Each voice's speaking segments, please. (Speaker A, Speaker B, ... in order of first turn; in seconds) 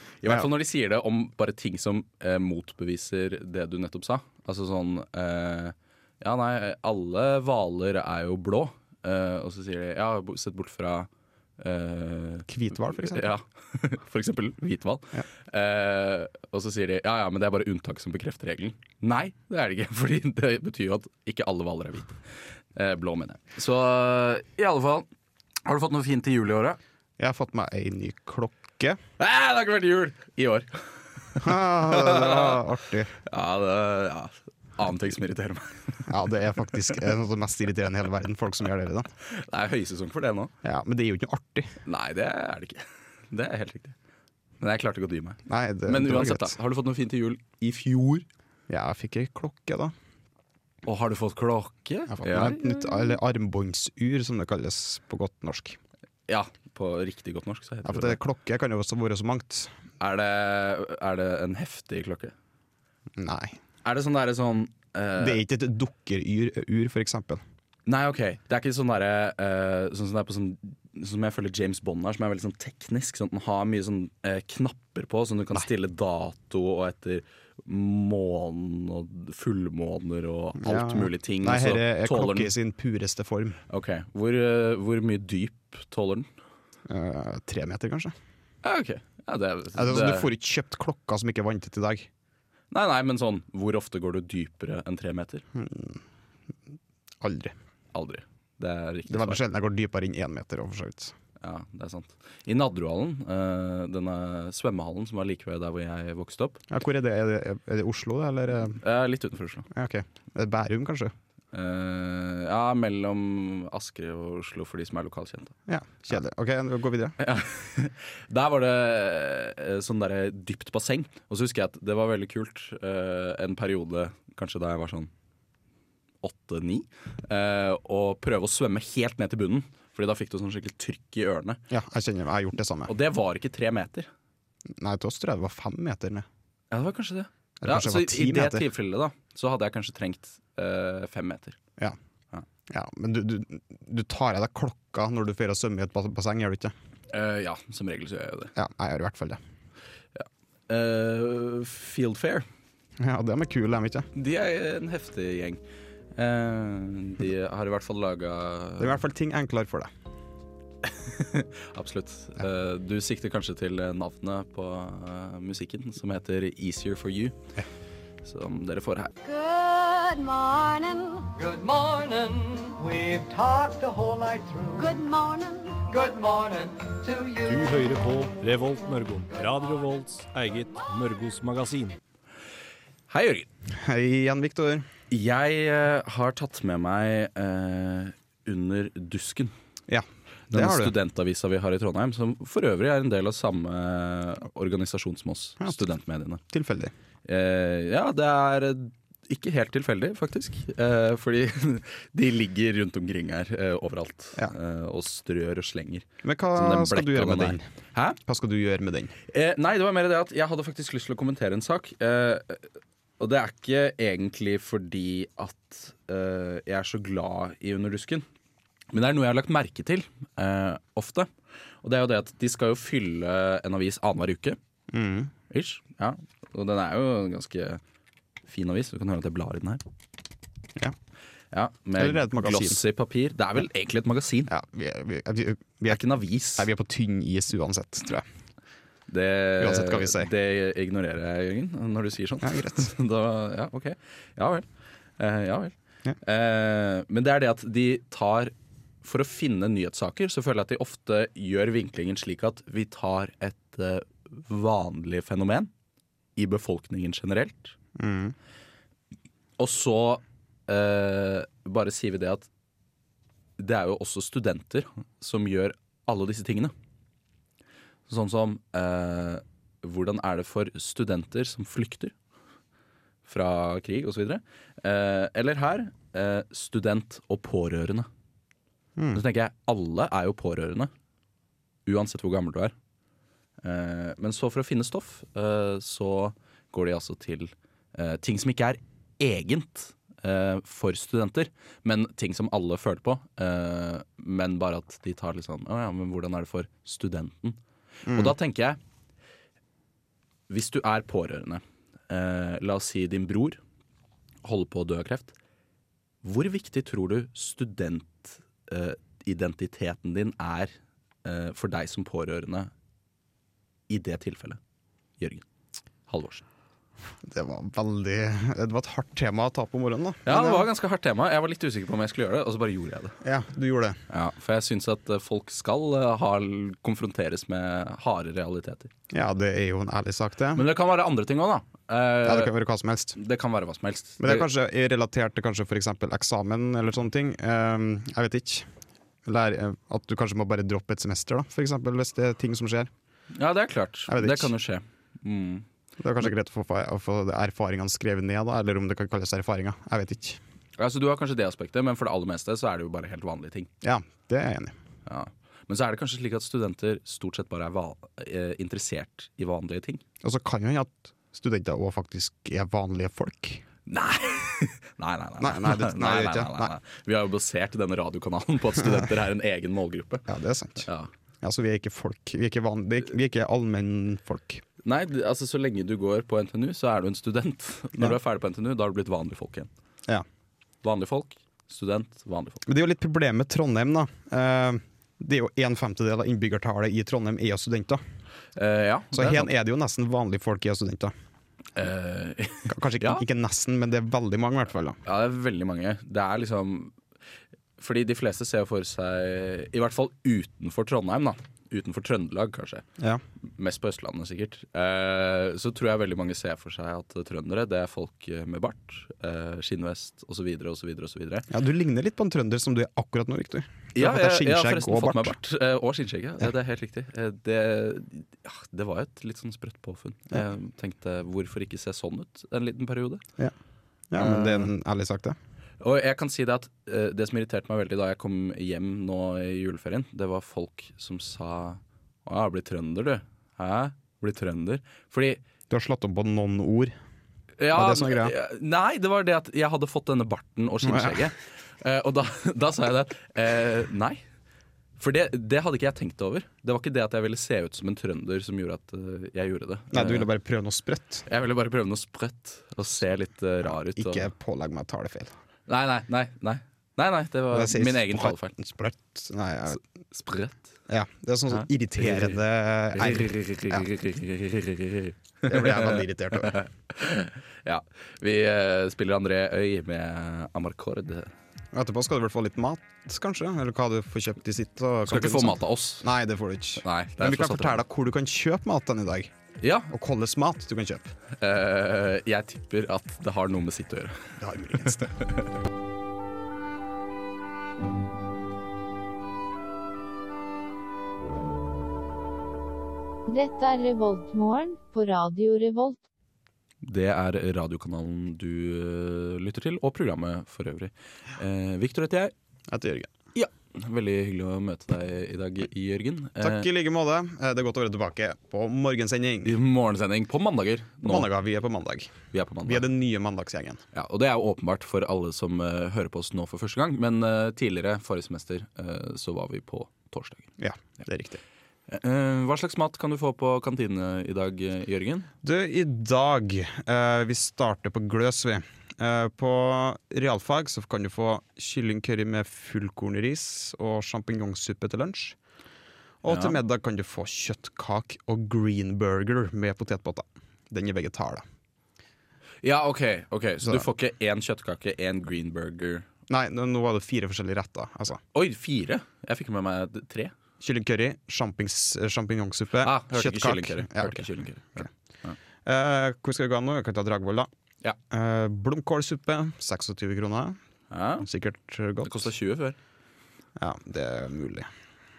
Speaker A: 0.2-22.2, 22.8-25.1, 25.7-26.8, 29.2-32.6, 33.3-36.1, 39.3-40.5, 41.8-44.0, 44.6-48.2, 50.8-52.6, 56.3-58.2, 60.0-62.3, 63.8-65.4, 67.9-82.5, 83.7-86.3, 88.6-90.3, 92.7-95.4, 97.9-99.4, 101.4-106.6, 108.8-109.7, 111.5-115.5, 117.2-125.1, 126.2-131.6, 132.9-134.1, 136.7-141.6, 147.1-148.5, 150.2-152.5, 154.1-155.6, 156.2-159.0, 160.9-167.4, 168.2-169.1, 183.1-183.5, 185.1-189.5, 190.5-196.4, 197.3-208.2, 209.3-212.7, 213.2-218.2, 218.9-221.3, 221.8-224.6, 225.5-227.8, 228.5-229.8, 231.5-234.5, 235.9-236.7, 239.1-244.7, 245.2-255.7, 256.4-257.8, 259.6-262.5, 263.6-266.7, 268.1-272.1, 273.3-278.1, 279.1-280.9, 281.9-282.7, 283.6-297.6, 298.1-298.8, 300.5-303.6, 304.4-305.4, 306.2-310.7, 311.2-312.7, 313.9-314.6, 315.2-315.4, 316.1-316.4, 320.3-323.2, 324.1-328.9, 330.6-332.5, 333.2-334.5, 343.4-345.7, 350.8-353.7, 355.1-360.0, 363.9-370.3, 370.8-371.1, 374.8-379.7, 380.8-382.6, 388.6-389.5, 391.8-393.2, 395.1-396.9, 397.8-402.8, 403.6-411.5, 413.9-423.2, 424.2-424.7, 425.8-435.4, 437.6-444.2, 445.0-450.3, 451.3-454.3, 455.7-458.5, 460.1-460.6, 461.5-462.3, 462.9-471.3, 475.1-476.1, 476.8-477.8, 479.6-479.9, 481.3-485.5, 496.8-502.3, 503.4-506.7, 509.4-511.3, 512.3-512.9, 513.9-520.5, 521.9-525.3, 536.3-536.6, 542.6-546.1, 548.3-550.3, 552.8-555.4, 560.9-561.3, 562.0-562.8
Speaker B: 12.5-13.3, 27.2-29.0, 31.4-33.1, 36.1-39.1, 40.6-41.8, 45.5-46.6, 48.7-49.9, 52.1-55.8, 57.9-59.7, 63.2-63.6, 65.2-67.4, 80.6-83.6, 86.9-88.2, 89.8-92.1, 95.5-96.0, 97.2-97.5, 99.1-101.1, 106.7-108.8, 109.7-111.1, 115.7-117.2, 131.7-132.9, 134.7-136.3, 137.6-138.7, 142.7-146.7, 148.6-149.4, 153.0-154.1, 158.8-159.9, 183.7-184.8, 189.9-190.9, 196.5-196.9, 206.2-207.7, 208.2-209.1, 224.9-225.3, 232.0-232.8, 234.5-238.2, 239.6-240.3, 242.4-242.9, 258.0-258.4, 279.0-279.2, 298.1-298.3, 317.2-320.7, 323.2-324.0, 329.1-330.6, 332.2-333.2, 334.2-338.7, 339.2-342.9, 344.1-344.5, 346.0-350.4, 353.8-354.8, 360.2-363.6, 365.4-366.7, 370.3-370.9, 371.4-374.6, 382.7-388.0, 389.1-391.1, 392.7-395.0, 411.5-415.4, 424.1-425.4, 435.7-436.9, 437.7-438.3, 440.8-441.3, 449.9-451.2, 453.9-455.3, 457.5-459.8, 460.9-463.9, 465.4-466.6, 471.7-479.3, 479.9-481.1, 484.4-485.1, 502.7-503.1, 506.4-509.6, 511.0-512.1, 512.6-513.8, 520.6-521.4, 525.4-535.4, 536.2-541.4, 546.3-548.2, 550.6-554.9, 555.6-557.5, 558.1-560.6, 561.2-562.3, 563.6-564.7
Speaker C: 169.2-171.3, 174.8-175.8
Speaker D: 171.4-175.0, 175.9-177.7
Speaker E: 177.4-182.0
Speaker F: 493.3-496.0